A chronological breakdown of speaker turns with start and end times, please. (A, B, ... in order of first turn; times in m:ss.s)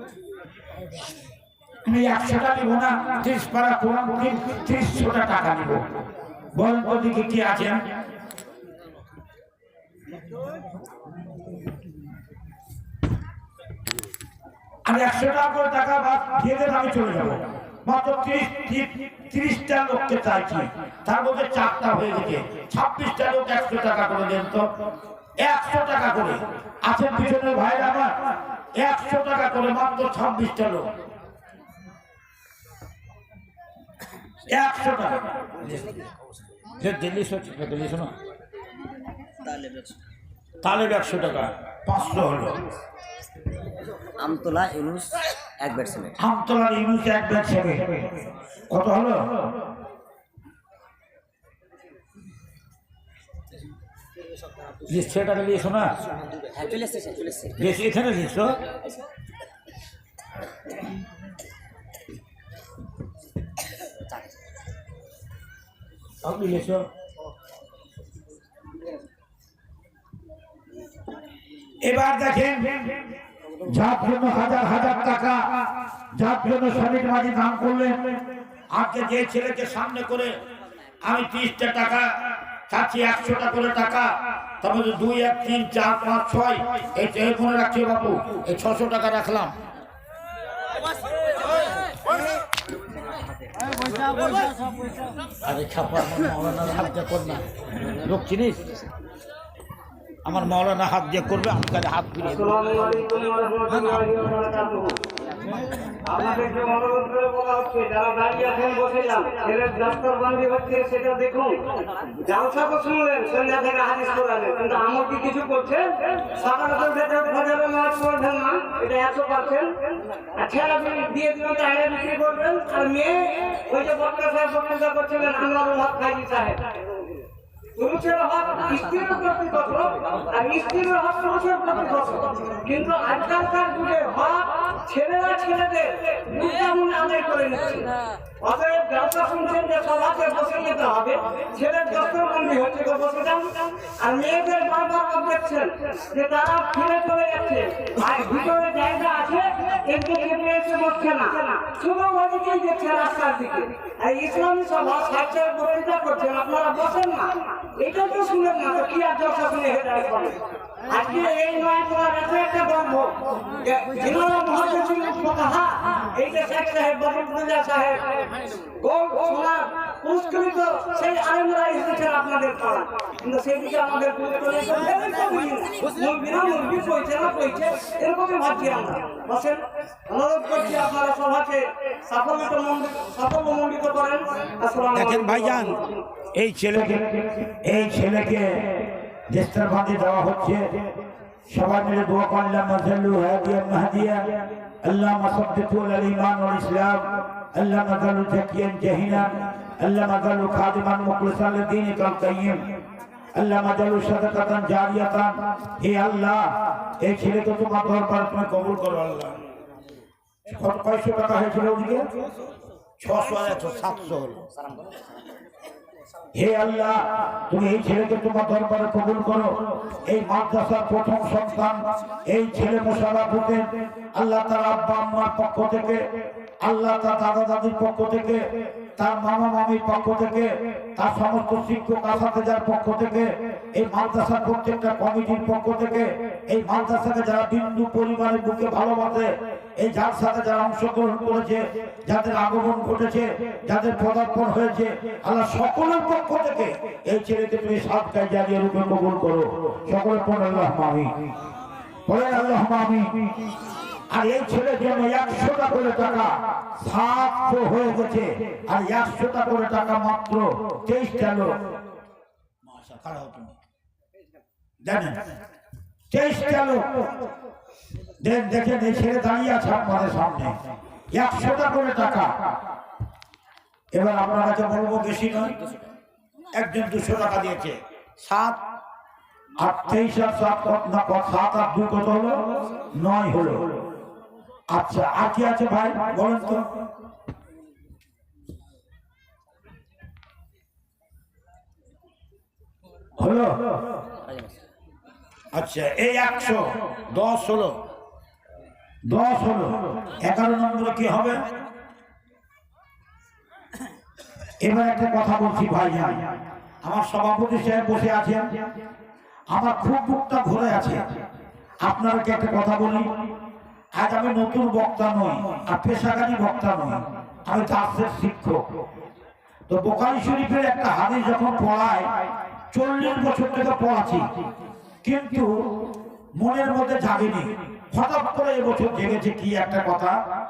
0:01.8-0:05.9 A
0:06.5-0:07.8 A
0:14.8-0:24.6 A
0:25.4-0:28.1 A
0:28.8-0:30.9 A
0:34.5-0:35.8 A
0:35.6-0:36.1 B
0:36.8-0:38.1 A
0:39.4-0:40.0 B
0:40.6-0:42.6 A
0:44.2-0:46.2 B
0:46.2-0:48.0 A
0:48.7-0:49.2 A
0:54.9-0:55.9 A
0:56.5-0:57.8 B
0:57.6-0:58.5 A
1:06.2-1:06.8 A
1:11.8-1:12.6 A
1:13.7-1:15.4 A
1:16.2-1:18.0 A
1:18.7-1:20.3 A
1:21.0-1:22.1 A
1:22.7-1:24.1 A
1:24.6-1:29.5 A
1:35.4-1:38.6 A
1:40.2-1:42.7 A
1:42.2-1:45.0 C
1:46.0-1:59.7 C
2:00.3-2:06.8 C
2:07.8-3:06.0 C
3:04.9-3:05.8 A
3:06.3-3:08.6 A
3:09.3-3:10.6 A
3:11.5-3:14.2 A
3:14.8-3:22.6 A
3:23.3-3:29.3 A
3:30.5-3:32.0 A
3:33.0-3:34.4 A
3:34.5-3:35.1 B
3:36.3-3:46.0 A
3:46.6-3:48.4 A
3:49.0-4:11.1 A
4:12.1-4:13.1 A
4:14.1-4:21.5 A
4:22.6-4:23.6 A
4:24.8-4:25.2 A
4:26.1-4:26.9 A
4:28.2-4:30.5 A
4:31.1-4:32.3 A
4:34.0-4:35.5 A
4:36.6-4:38.6 A
4:39.6-4:42.4 A
4:43.0-4:43.6 A
4:44.7-4:46.6 A
4:53.2-4:53.6 A
4:54.2-4:54.5 B
4:55.5-4:57.8 A
4:59.1-5:01.3 A
5:04.6-5:06.2 A
5:06.8-5:08.4 A
5:09.5-5:11.0 A
5:11.8-5:13.0 A
5:14.0-5:18.6 A
5:19.7-5:22.1 A
5:22.7-5:24.2 A
5:25.0-5:25.5 A
5:26.4-5:30.1 A